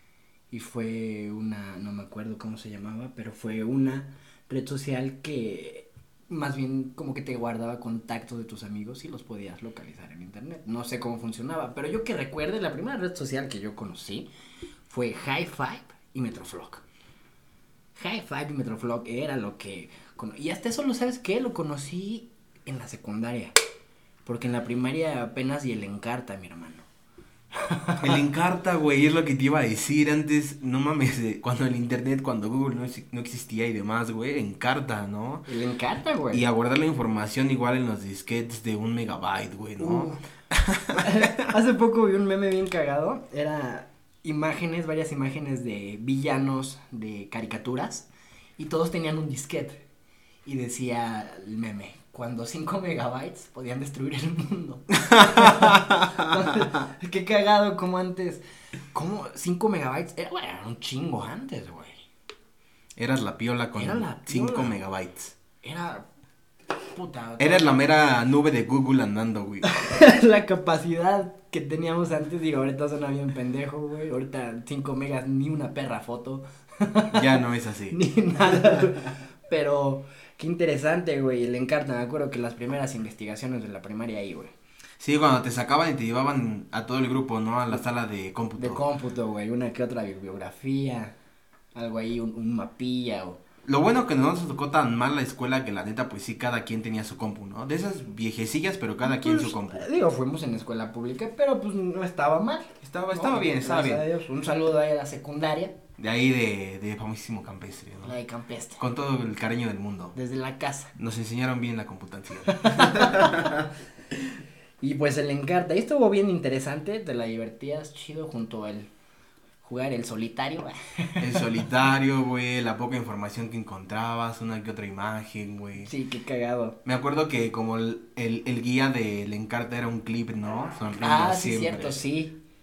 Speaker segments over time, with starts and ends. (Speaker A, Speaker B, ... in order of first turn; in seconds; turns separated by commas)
Speaker A: 0.5-14.3, Speaker A: 14.9-16.8, Speaker A: 18.0-23.6, Speaker A: 24.3-26.9, Speaker A: 27.5-28.2, Speaker B: 28.0-35.5, Speaker A: 35.5-36.5, Speaker B: 36.3-41.5, Speaker A: 39.8-40.2, Speaker A: 40.9-49.9, Speaker A: 50.5-62.0, Speaker B: 55.1-56.7, Speaker B: 63.0-65.3, Speaker A: 63.8-64.8, Speaker A: 65.6-66.1, Speaker A: 66.9-67.8, Speaker B: 67.4-69.7, Speaker A: 69.6-84.5, Speaker B: 77.1-78.8, Speaker B: 85.0-88.8, Speaker A: 88.6-91.2, Speaker A: 91.8-93.4, Speaker B: 93.7-99.9, Speaker A: 99.1-105.8, Speaker B: 102.8-104.0, Speaker B: 106.0-108.2, Speaker A: 108.0-108.8, Speaker B: 108.8-110.2, Speaker A: 110.2-111.0, Speaker B: 111.0-114.2, Speaker A: 112.5-113.5, Speaker A: 114.8-118.9, Speaker A: 119.6-121.5, Speaker B: 121.2-125.9, Speaker A: 125.8-126.8, Speaker B: 126.8-132.0, Speaker A: 131.0-132.4